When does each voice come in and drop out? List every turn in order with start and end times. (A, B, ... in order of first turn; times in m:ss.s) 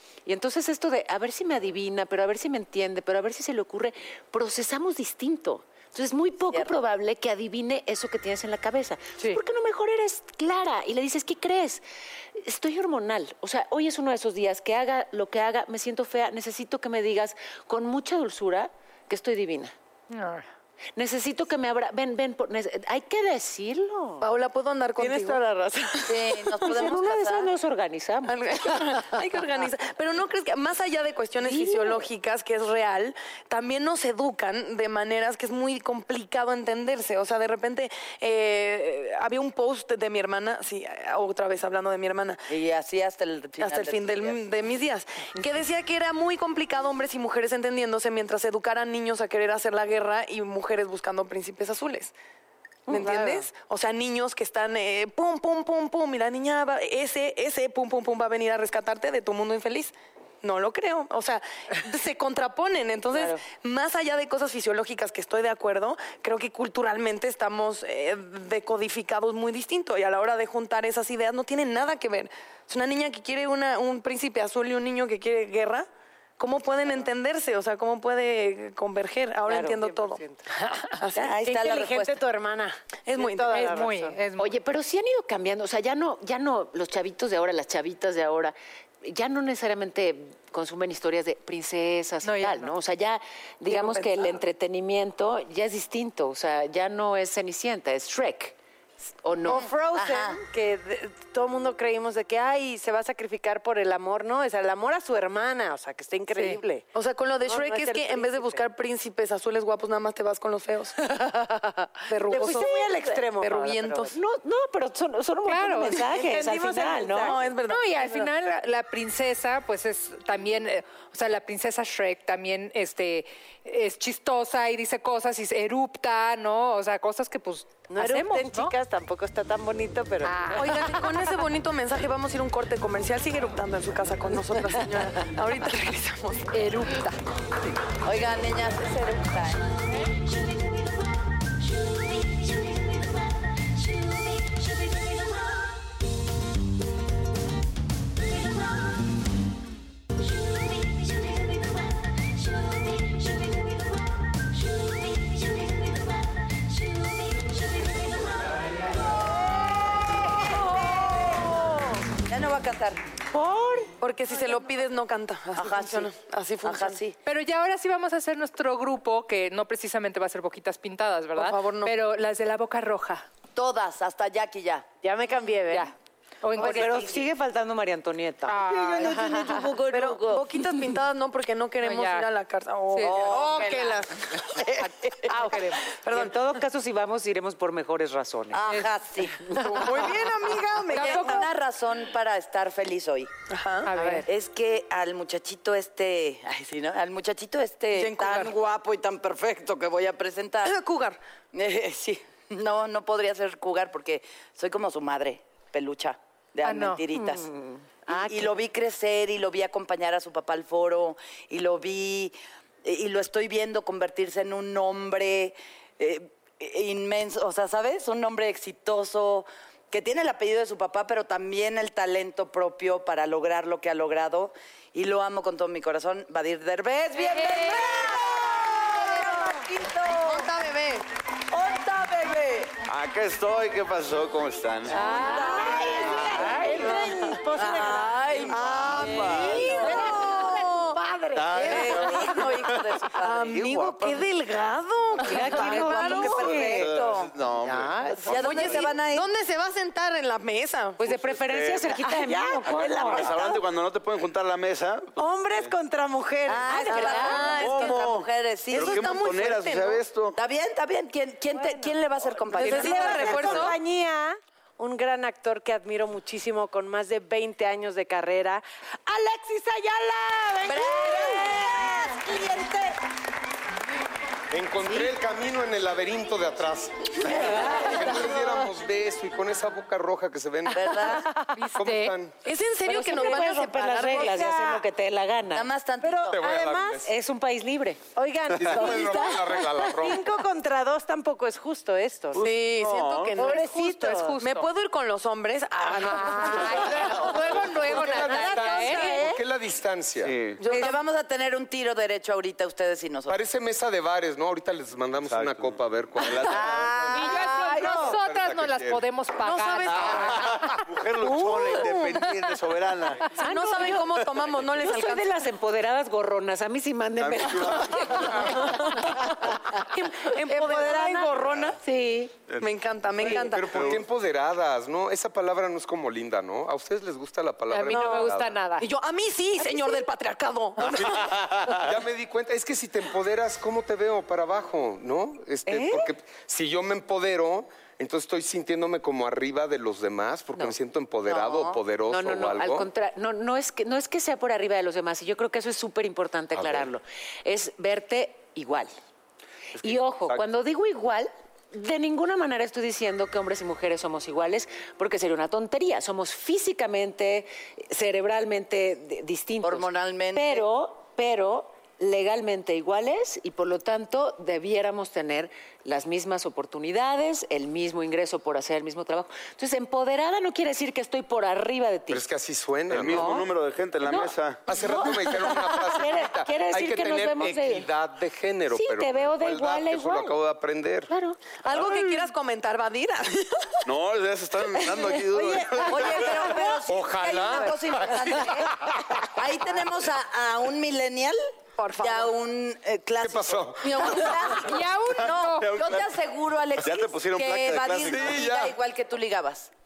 0:00.3-0:11.8 A
0:06.5-0:06.8 B
0:12.4-0:19.7 A
0:20.1-0:20.5 C
0:21.0-0:24.2 A
0:24.2-0:25.4 D
0:25.0-0:26.7 E
0:26.1-0:27.5 B
0:26.6-0:28.9 A
0:28.2-0:42.5 D
0:31.4-0:32.0 A
0:42.5-0:44.4 B
0:43.6-0:52.1 D
0:52.9-1:15.9 D
0:52.9-0:53.4 A
1:03.1-1:03.4 A
1:16.4-1:20.2 D
1:19.5-1:20.4 E
1:21.0-1:21.4 D
1:21.2-1:22.2 B
1:21.4-1:24.2 E
1:23.1-1:23.8 D
1:23.5-1:24.5 C
1:24.4-1:38.6 A
1:32.2-1:32.7 C
1:33.7-1:34.4 D
1:39.2-1:39.7 A
1:39.5-1:46.9 E
1:39.9-1:40.4 B
1:46.4-1:46.6 C
1:46.9-1:50.9 D
1:47.4-1:48.6 E
1:51.0-1:54.1 E
1:52.1-1:54.1 D
1:52.4-1:53.2 A
1:54.1-1:57.4 A
1:55.5-1:56.0 C
1:56.0-1:57.5 E
1:57.2-1:58.2 D
1:57.7-2:08.7 C
2:07.9-2:11.0 E
2:10.2-2:11.1 C
2:10.5-2:16.6 D
2:16.5-2:17.2 C
2:18.0-2:19.7 B
2:40.7-2:43.0 B
2:43.4-2:43.9 A
2:44.0-2:47.0 D
2:45.6-2:46.1 B
2:46.6-2:47.1 B
2:47.2-2:53.3 C
2:51.4-2:51.9 D
2:53.6-2:54.9 B
2:55.0-2:55.9 E
2:55.7-2:57.1 C
2:56.6-2:58.6 A
2:56.6-2:56.9 E
2:58.5-2:59.7 C
2:58.5-3:00.5 B
2:59.9-3:06.3 D
3:01.8-3:02.3 C
3:02.9-3:03.7 C
3:03.0-3:04.0 B
3:05.3-3:05.8 C
3:06.1-3:08.6 A
3:08.5-3:13.3 B
3:09.5-3:11.5 D
3:09.6-3:10.0 C
3:10.9-3:11.5 C
3:13.5-3:14.0 D
3:13.9-3:14.3 C
3:14.0-3:20.8 B
3:18.0-3:18.5 D
3:20.6-3:21.2 D
3:21.5-3:27.5 B
3:26.6-3:27.1 C
3:27.3-3:27.8 A
3:28.1-3:50.5 B
3:47.2-3:48.2 C
3:50.2-3:51.0 D
3:51.5-3:52.7 B
3:52.9-3:55.2 F
3:54.9-3:55.9 C
3:55.0-3:56.9 B
3:55.1-3:59.0 E
3:56.2-3:56.7 F
3:56.5-3:56.9 A
3:57.6-4:00.7 B
3:58.5-3:59.7 F
3:58.9-4:01.0 D
3:59.6-4:02.0 E
4:00.0-4:00.4 C
4:01.4-4:04.3 F
4:01.5-4:03.6 B
4:01.6-4:02.0 D
4:03.2-4:06.9 D
4:05.3-4:07.3 B
4:05.3-4:06.9 A
4:05.3-4:05.7 F
4:05.6-4:06.8 E
4:06.2-4:08.9 F
4:07.7-4:08.2 A
4:08.2-4:09.3 B
4:08.3-4:11.0 D
4:11.0-4:13.3 A
4:11.1-4:12.0 F
4:12.0-4:13.6 E
4:12.7-4:15.7 F
4:15.2-4:17.6 E
4:16.5-4:19.2 B
4:16.6-4:17.6 A
4:16.9-4:18.1 D
4:17.6-4:20.4 F
4:18.7-4:20.0 D
4:20.4-4:23.7 B
4:21.5-4:32.9 E
4:22.6-4:23.8 D
4:22.6-4:23.7 C
4:30.6-4:33.0 B
4:34.5-4:41.2 G
4:40.7-4:41.3 B
4:41.2-4:41.7 E
4:41.6-4:42.2 C
4:41.8-4:42.3 G
4:42.4-4:44.6 D
4:42.8-4:45.7 A
4:43.0-4:44.8 E
4:45.5-4:46.4 B
4:46.0-4:47.1 E
4:46.3-4:47.1 G
4:47.0-4:48.0 A
4:48.2-4:52.5 E
4:48.5-4:50.3 G
4:52.4-4:53.4 F
4:52.4-4:53.7 D
4:53.3-4:54.6 E
4:53.4-4:54.7 C
4:54.4-4:57.8 D
4:56.0-4:59.2 C
4:56.9-4:59.4 E
4:57.4-5:00.4 G
5:00.2-5:00.6 F
5:00.6-5:01.0 D
5:00.6-5:03.4 B
5:03.3-5:09.0 G
5:05.3-5:07.2 F
5:06.4-5:08.2 B
5:07.1-5:10.7 C
5:07.3-5:07.9 E
5:09.4-5:10.5 D
5:10.0-5:13.4 F
5:10.1-5:10.7 G
5:11.2-5:12.7 D
5:13.3-5:15.3 D
5:14.0-5:14.8 F
5:14.8-5:22.3 A
5:17.2-5:18.3 F
5:18.3-5:19.3 D
5:19.8-5:21.7 D
5:20.2-5:21.5 E
5:22.5-5:24.0 F
5:22.6-5:24.0 D
5:23.4-5:28.6 G
5:27.7-5:28.9 C
5:27.9-5:31.4 D
5:31.0-5:31.9 F
5:31.8-5:42.9 G
5:41.3-5:41.8 B
5:42.1-5:48.9 A
5:46.6-5:46.8 G
5:49.8-5:50.4 F
5:49.8-6:12.2 A
5:59.6-6:00.7 B
6:12.1-6:13.3 G
6:12.9-6:14.6 F
6:13.1-6:13.5 A
6:14.0-6:17.9 A
6:14.7-6:21.1 G
6:18.7-6:20.4 A
6:21.1-6:21.4 A
6:21.6-6:23.9 D
6:21.7-6:22.3 F
6:23.9-6:26.5 F
6:24.7-6:25.3 D
6:25.4-6:25.8 E
6:25.7-6:31.4 B
6:26.8-6:29.0 G
6:31.8-6:32.3 D
6:32.0-6:39.7 B
6:33.2-6:34.6 G
6:34.5-6:35.8 C
6:35.6-6:36.1 F
6:36.8-6:38.5 F
6:38.0-6:38.8 G